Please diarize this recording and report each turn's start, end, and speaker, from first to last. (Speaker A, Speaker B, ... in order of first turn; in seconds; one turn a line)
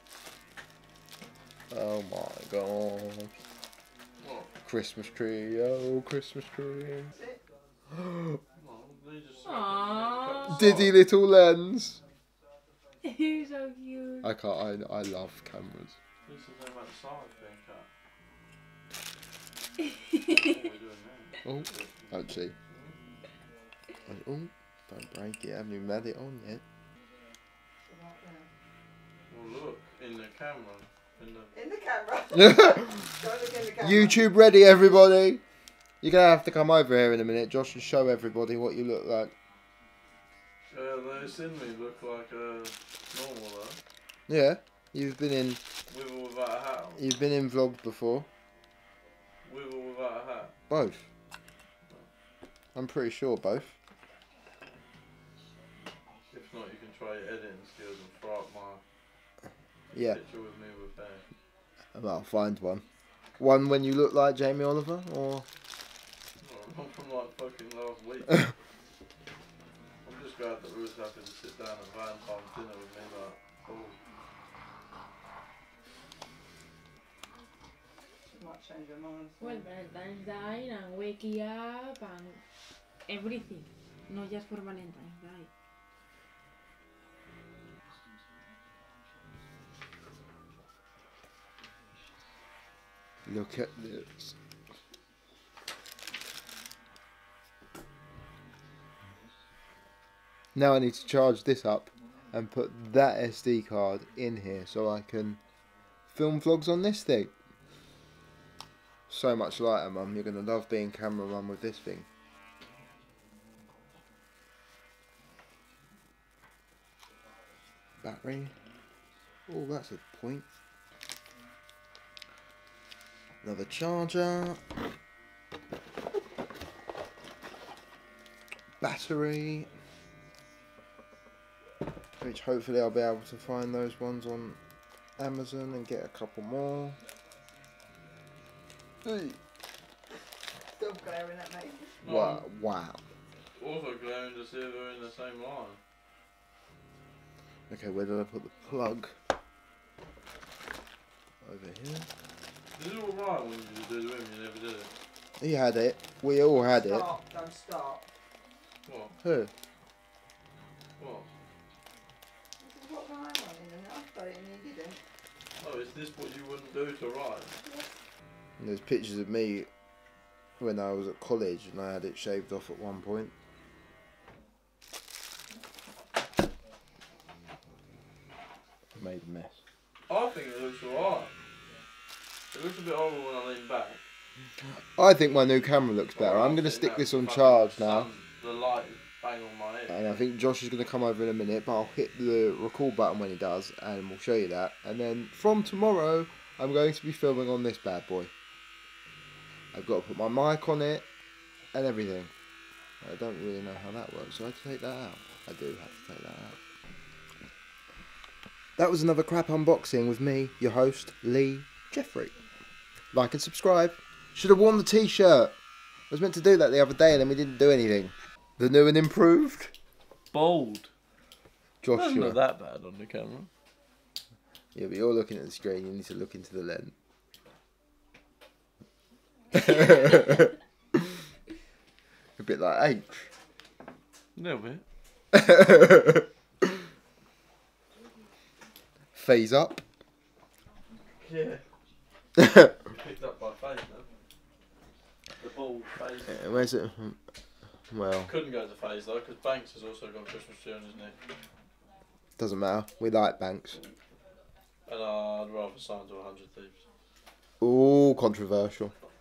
Speaker A: 1.7-3.3
Speaker B: 4.2-4.5
Speaker A: 4.6-7.1
Speaker C: 7.1-7.4
Speaker A: 7.9-8.4
Speaker B: 8.5-11.0
Speaker D: 9.4-10.7
Speaker A: 10.4-12.0
Speaker D: 13.0-14.3
Speaker A: 14.2-16.0
Speaker B: 16.2-17.9
Speaker B: 20.2-22.1
Speaker A: 21.4-22.5
Speaker B: 22.7-22.9
Speaker A: 24.1-26.6
Speaker C: 27.8-28.5
Speaker B: 29.3-31.5
Speaker C: 31.5-34.2
Speaker A: 32.3-33.1
Speaker A: 33.8-35.4
Speaker A: 36.0-39.3
Speaker B: 40.7-43.8
Speaker A: 44.3-45.6
Speaker B: 45.9-47.0
Speaker A: 47.0-48.3
Speaker B: 49.4-50.5
Speaker A: 50.7-51.1
Speaker A: 52.7-53.8
Speaker B: 56.3-58.8
Speaker B: 59.9-61.2
Speaker A: 59.9-60.2
Speaker A: 61.9-62.8
Speaker A: 63.4-65.5
Speaker B: 66.4-68.5
Speaker B: 70.0-74.0
Speaker C: 78.3-79.7
Speaker D: 79.4-82.4
Speaker D: 83.1-85.5
Speaker A: 93.2-94.3
Speaker A: 100.5-105.4
Speaker A: 106.1-107.3
Speaker A: 109.1-112.0
Speaker A: 118.0-118.5
Speaker A: 119.5-120.4
Speaker A: 123.4-124.6
Speaker A: 128.8-129.7
Speaker A: 132.2-134.6
Speaker A: 135.2-137.0
Speaker A: 139.0-139.4
Speaker C: 140.7-141.9
Speaker B: 142.0-142.4
Speaker A: 142.0-143.0
Speaker B: 143.6-145.8
Speaker A: 147.7-149.1
Speaker A: 151.4-152.1
Speaker B: 152.7-154.9
Speaker A: 155.4-157.1
Speaker C: 156.7-158.1
Speaker B: 158.8-159.1
Speaker A: 159.2-159.5
Speaker B: 161.0-161.3
Speaker C: 162.6-165.0
Speaker B: 165.6-167.6
Speaker C: 167.6-167.9
Speaker A: 168.6-169.7
Speaker A: 170.6-173.3
Speaker A: 178.9-179.6
Speaker B: 180.1-181.3
Speaker B: 182.5-184.0
Speaker A: 184.7-188.1
Speaker B: 186.1-190.0
Speaker A: 189.9-198.3
Speaker A: 199.7-201.1
Speaker A: 201.7-202.3
Speaker A: 203.0-206.6
Speaker A: 208.8-212.3
Speaker A: 213.1-215.5
Speaker A: 216.1-219.7
Speaker B: 220.3-220.9
Speaker A: 221.8-222.4
Speaker B: 221.9-223.5
Speaker A: 224.7-226.9
Speaker A: 229.5-230.5
Speaker A: 232.4-233.3
Speaker B: 234.3-234.8
Speaker A: 235.3-236.2
Speaker A: 239.1-239.8
Speaker B: 241.2-241.6
Speaker B: 242.8-244.1
Speaker B: 245.4-246.7
Speaker A: 246.3-247.2
Speaker A: 247.9-248.3
Speaker B: 248.2-251.2
Speaker A: 252.4-253.8
Speaker B: 254.9-256.8
Speaker A: 257.6-258.9